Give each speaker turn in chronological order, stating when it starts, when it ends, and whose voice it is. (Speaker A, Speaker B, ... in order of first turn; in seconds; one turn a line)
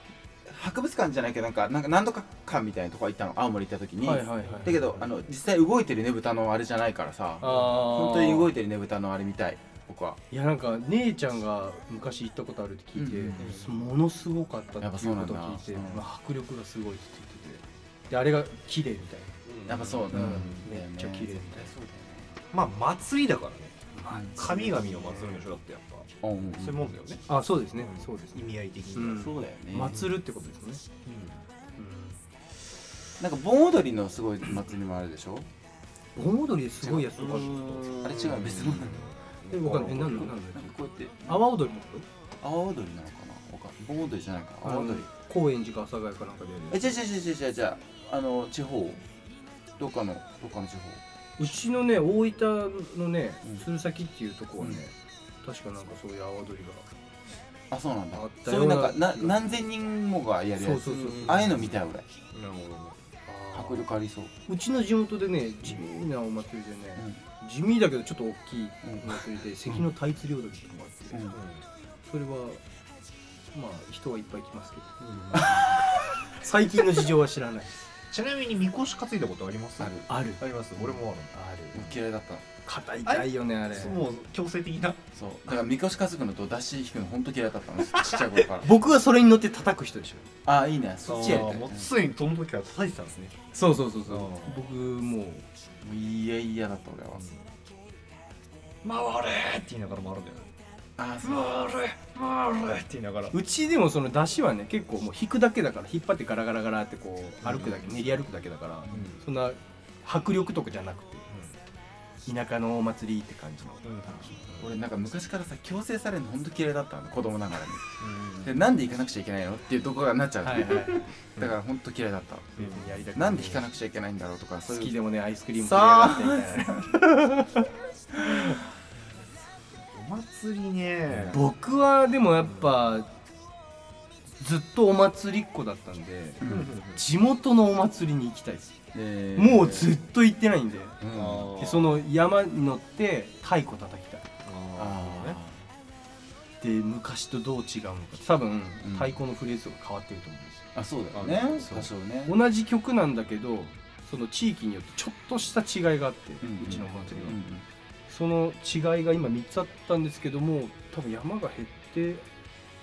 Speaker A: 0.5-10.2
Speaker B: 4.0-5.0
Speaker B: 7.4-8.5
Speaker B: 10.3-19.4
Speaker A: 12.9-13.5
Speaker C: 13.4-13.8
Speaker A: 14.8-16.0
Speaker C: 19.4-20.6
Speaker A: 19.7-22.4
Speaker B: 20.1-21.7
Speaker C: 22.5-27.2
Speaker B: 23.9-25.4
Speaker A: 24.1-24.5
Speaker A: 26.2-26.9
Speaker B: 27.3-30.8
Speaker C: 27.8-29.3
Speaker A: 29.0-30.0
Speaker C: 31.0-31.4
Speaker B: 31.8-32.2
Speaker A: 33.2-35.5
Speaker B: 36.1-38.0
Speaker A: 36.8-37.2
Speaker C: 37.2-40.3
Speaker A: 38.0-41.4
Speaker B: 39.5-40.7
Speaker B: 41.3-42.0
Speaker A: 42.4-45.0
Speaker B: 44.6-46.9
Speaker A: 46.7-49.0
Speaker A: 49.8-51.0
Speaker B: 51.4-56.9
Speaker A: 57.7-62.0
Speaker B: 58.1-59.6
Speaker B: 60.6-61.7
Speaker C: 61.3-61.6
Speaker C: 62.3-63.0
Speaker B: 63.3-63.9
Speaker A: 63.5-64.3
Speaker B: 64.5-71.2
Speaker A: 68.8-69.8
Speaker C: 71.3-71.6
Speaker B: 72.0-72.6
Speaker B: 73.5-77.7
Speaker A: 75.4-75.8
Speaker C: 78.1-81.3
Speaker A: 79.8-80.1
Speaker B: 80.1-80.4
Speaker B: 81.3-81.8
Speaker A: 81.7-82.4
Speaker B: 82.7-84.0
Speaker C: 83.0-85.0
Speaker A: 85.1-88.7
Speaker B: 88.6-90.3
Speaker A: 90.4-91.9
Speaker C: 91.0-93.4
Speaker B: 93.5-95.5
Speaker C: 94.1-94.6
Speaker A: 95.8-97.3
Speaker C: 97.2-97.4
Speaker C: 98.8-100.5
Speaker A: 101.0-101.7
Speaker C: 101.2-103.4
Speaker B: 103.3-111.3
Speaker C: 107.4-108.2
Speaker A: 108.8-109.1
Speaker C: 108.9-109.2
Speaker C: 111.3-111.6
Speaker B: 112.2-114.5
Speaker C: 113.8-114.7
Speaker A: 114.6-122.6
Speaker C: 118.0-118.6
Speaker B: 120.4-121.0
Speaker B: 122.5-123.7
Speaker C: 122.6-122.9
Speaker A: 123.1-125.0
Speaker B: 124.7-127.7
Speaker A: 125.5-126.9
Speaker C: 128.2-128.6
Speaker C: 129.7-131.4
Speaker A: 131.1-131.4
Speaker B: 131.3-133.1
Speaker C: 132.4-132.7
Speaker B: 134.4-136.4
Speaker A: 136.4-136.8
Speaker C: 136.4-137.0
Speaker B: 136.9-138.7
Speaker A: 138.9-139.9
Speaker B: 139.4-141.0
Speaker A: 141.0-141.5
Speaker C: 141.1-142.0
Speaker B: 141.6-144.2
Speaker C: 144.4-145.4
Speaker A: 144.8-145.7
Speaker B: 146.6-150.7
Speaker A: 148.8-149.2
Speaker A: 150.7-152.4
Speaker C: 151.1-151.8
Speaker B: 151.6-157.4
Speaker A: 156.4-157.6
Speaker B: 158.1-162.2